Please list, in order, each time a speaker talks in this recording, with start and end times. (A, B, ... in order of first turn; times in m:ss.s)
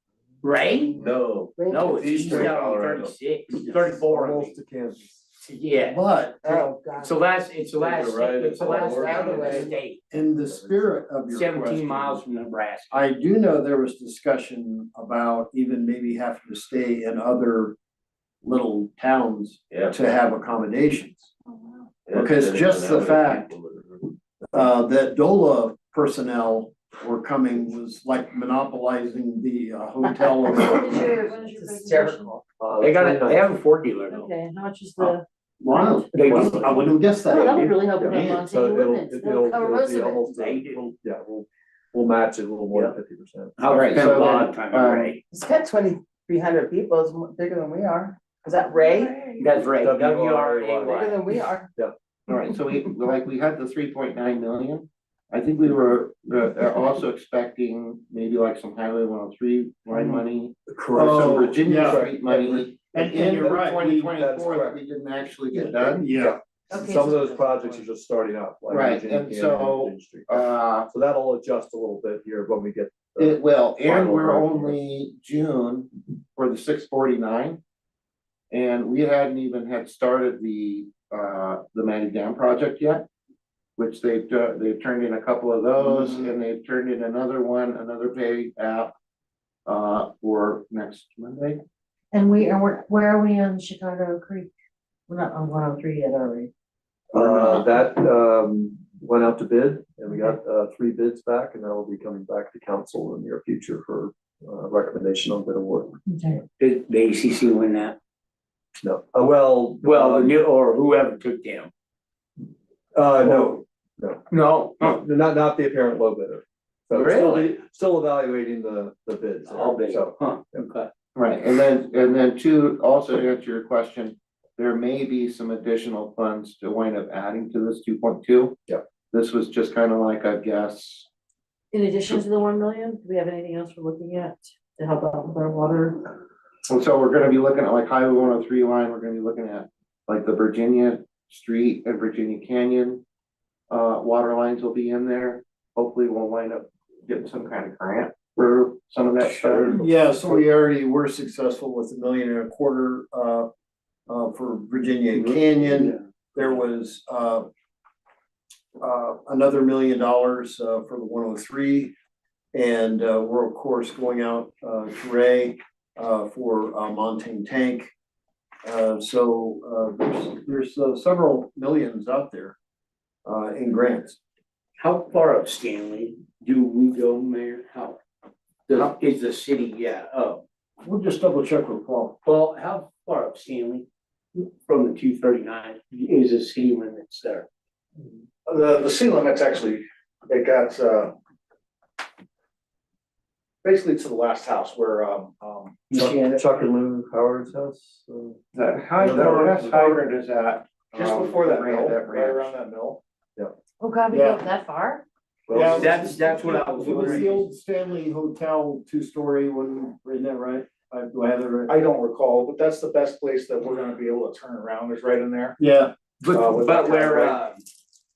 0:00.4-0:01.0 A
0:01.0-0:03.1 B
0:01.6-0:02.3 C
0:01.7-0:04.6 A
0:03.6-0:05.1 D
0:05.4-0:10.0 A
0:05.8-0:06.6 E
0:06.4-0:07.1 C
0:07.8-0:09.7 D
0:08.0-0:09.1 B
0:08.6-0:09.6 C
0:10.1-0:12.2 E
0:10.2-0:10.9 D
0:11.3-0:13.1 A
0:12.9-0:17.8 E
0:18.4-0:21.3 E
0:22.1-0:24.1 B
0:22.1-0:23.5 E
0:24.5-0:31.2 E
0:30.5-0:32.3 F
0:31.5-0:32.3 C
0:32.6-0:33.4 D
0:32.8-0:34.3 A
0:34.1-0:36.1 F
0:35.6-0:38.4 E
0:36.1-0:37.7 A
0:36.2-0:36.9 D
0:37.3-0:40.4 F
0:38.0-0:43.6 D
0:40.4-0:40.9 A
0:43.6-0:45.2 A
0:43.7-0:45.1 G
0:45.3-0:49.4 C
0:48.6-0:49.2 F
0:49.4-0:51.1 A
0:49.6-0:51.9 D
0:50.9-0:51.7 C
0:52.3-1:06.1 G
1:00.7-1:02.2 D
1:00.9-1:04.1 E
1:03.0-1:04.8 D
1:05.5-1:06.4 E
1:06.2-1:14.8 D
1:06.7-1:07.9 F
1:08.7-1:10.9 G
1:13.2-1:17.6 G
1:18.5-1:23.1 G
1:23.8-1:28.9 G
1:29.7-1:31.6 G
1:32.1-1:34.5 F
1:35.1-1:36.5 F
1:37.1-1:46.0 D
1:37.2-1:37.6 B
1:46.1-1:46.4 F
1:46.6-1:48.0 A
1:48.8-1:50.4 D
1:49.8-1:51.7 A
1:52.9-1:54.2 D
1:54.3-1:55.0 A
1:54.8-2:00.7 D
1:56.9-1:57.5 A
1:59.4-2:00.9 A
2:01.2-2:08.6 G
2:09.1-2:11.1 G
2:11.7-2:16.1 F
2:16.7-2:23.0 G
2:23.7-2:30.4 G
2:29.2-2:33.5 E
2:34.1-2:37.5 E
2:38.8-2:41.9 E
2:42.5-2:47.9 E
2:48.6-2:52.6 E
2:53.2-2:54.2 E
2:54.8-2:58.0 A
2:58.7-3:00.4 A
3:00.8-3:02.2 E
3:02.2-3:07.5 A
3:08.5-3:11.2 H
3:13.6-3:16.0 H
3:15.9-3:16.4 A
3:15.9-3:18.4 D
3:18.5-3:22.6 G
3:19.0-3:20.0 D
3:20.9-3:23.0 H
3:23.8-3:25.0 F
3:24.1-3:24.5 E
3:25.5-3:26.0 D
3:25.5-3:31.8 E
3:25.7-3:27.5 A
3:31.7-3:35.6 H
3:35.6-3:35.9 E
3:36.2-3:37.6 A
3:36.3-3:37.5 H